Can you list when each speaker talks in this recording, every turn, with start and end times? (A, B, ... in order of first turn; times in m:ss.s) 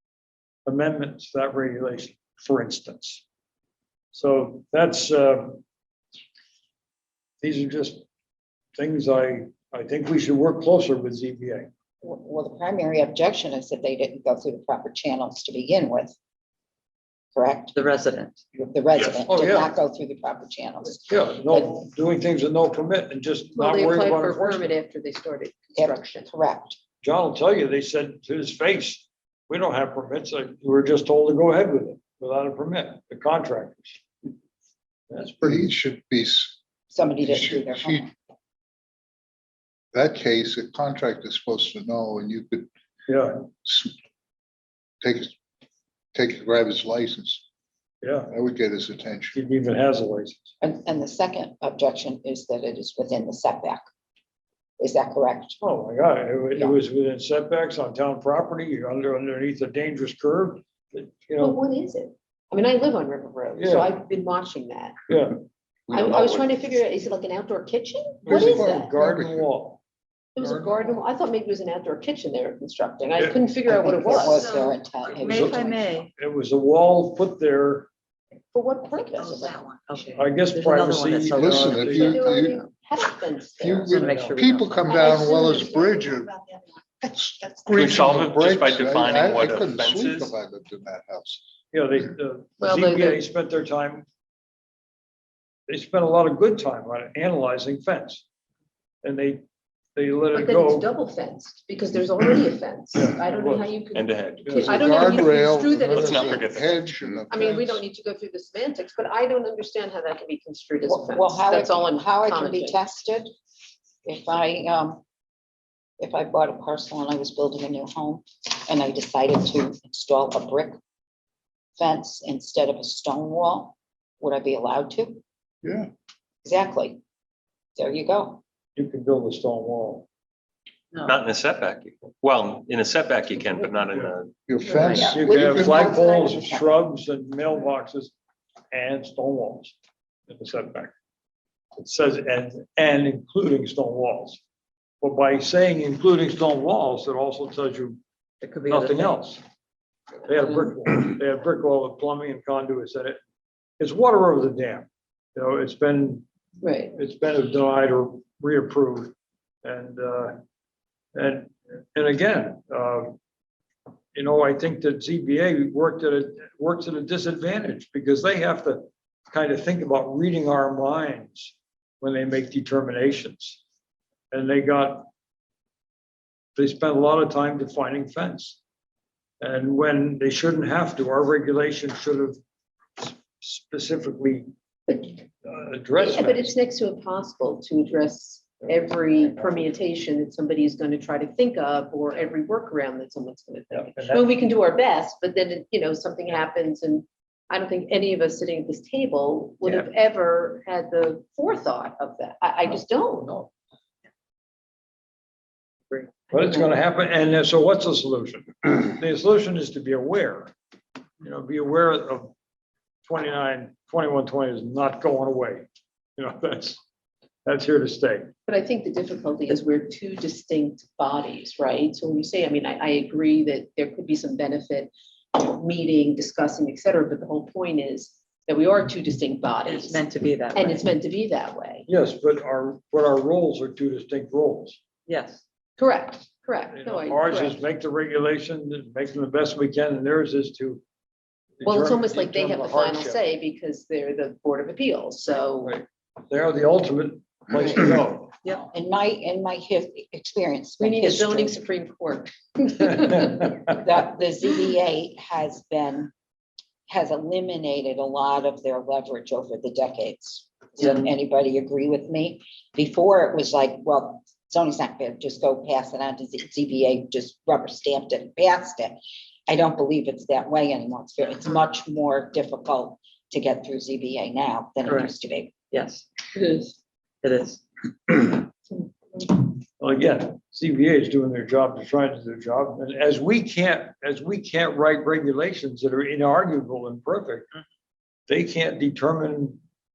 0:00.6-0:03.2 A
0:04.1-0:05.6 A
0:07.4-0:08.0 A
0:08.8-0:11.7 A
0:12.0-0:16.2 B
0:17.3-0:17.8 B
0:17.8-0:18.4 C
0:18.5-0:21.8 B
0:19.2-0:19.7 A
0:21.1-0:24.7 A
0:23.5-0:26.3 D
0:25.8-0:26.8 B
0:27.0-0:34.0 A
0:35.1-0:35.7 A
0:35.4-0:36.6 E
0:36.9-0:38.1 B
0:37.2-0:38.1 E
0:39.9-0:42.7 E
0:43.1-0:43.4 A
0:43.6-0:43.9 E
0:45.0-0:45.3 E
0:46.1-0:47.4 E
0:48.0-0:48.3 A
0:48.3-0:49.4 E
0:49.3-0:50.5 A
0:50.6-0:53.8 B
0:54.8-0:55.6 B
0:55.6-1:01.6 A
1:01.4-1:05.0 D
1:03.6-1:03.9 A
1:05.1-1:05.4 A
1:05.9-1:06.6 E
1:05.9-1:08.9 D
1:08.2-1:09.8 A
1:08.3-1:09.5 E
1:10.3-1:14.7 D
1:10.4-1:11.0 A
1:13.7-1:15.7 B
1:15.1-1:16.1 C
1:15.2-1:17.9 A
1:18.5-1:19.5 D
1:19.1-1:22.7 C
1:20.1-1:22.2 A
1:21.3-1:22.6 E
1:21.9-1:23.9 D
1:23.6-1:26.4 E
1:23.8-1:25.0 C
1:23.9-1:24.4 A
1:24.9-1:26.0 D
1:27.0-1:31.4 E
1:27.7-1:30.4 F
1:31.7-1:34.0 A
1:32.6-1:33.2 D
1:35.7-1:38.2 A
1:39.0-1:39.4 A
1:40.0-1:40.9 A
1:40.3-1:46.6 D
1:42.9-1:43.7 A
1:43.9-1:45.2 F
1:44.4-1:45.0 A
1:44.6-1:47.8 E
1:45.9-1:47.2 F
1:47.3-1:52.8 D
1:50.8-1:53.3 B
1:54.0-1:55.0 B
1:56.0-2:00.8 B
2:01.8-2:05.2 B
2:05.6-2:05.9 E
2:06.4-2:07.0 B
2:07.8-2:08.4 B
2:08.8-2:10.0 A
2:11.0-2:14.3 F
2:14.5-2:15.9 E
2:14.6-2:14.9 D
2:14.8-2:15.1 C
2:14.9-2:16.6 B
2:15.1-2:18.1 A
2:18.7-2:19.7 A
2:20.3-2:20.9 A
2:21.8-2:24.4 A
2:25.0-2:28.0 A
2:28.4-2:29.2 C
2:28.7-2:29.4 A
2:30.2-2:33.2 A
2:33.8-2:36.2 A
2:36.6-2:36.9 D
2:36.9-2:40.4 A
2:41.1-2:43.1 A
2:44.1-2:53.6 A
2:54.3-2:55.1 A
2:56.6-2:58.6 A
2:59.4-3:02.4 A
3:03.0-3:04.5 A
3:04.9-3:05.1 D
3:05.4-3:06.5 A
3:06.0-3:23.3 D
3:13.7-3:14.3 A
3:22.6-3:23.5 A
3:26.0-3:30.5 A
3:31.2-3:32.3 A
3:33.0-3:35.6 A
3:36.2-3:36.8 A
3:37.4-3:38.3 A
3:38.5-3:51.8 D
3:49.6-3:50.8 C
3:51.9-3:54.8 A
3:55.1-3:55.4 C
3:55.8-3:57.6 D
3:56.7-4:00.8 A
4:01.6-4:03.2 A
4:01.6-4:05.7 D
4:05.6-4:08.4 A
4:08.6-4:11.6 B
4:10.8-4:13.5 D
4:13.7-4:16.1 B
4:16.9-4:35.5 B
4:34.8-4:35.1 C
4:35.7-4:36.0 C
4:36.4-4:36.7 D
4:37.2-4:38.2 C
4:39.8-4:47.5 A
4:48.3-4:49.6 A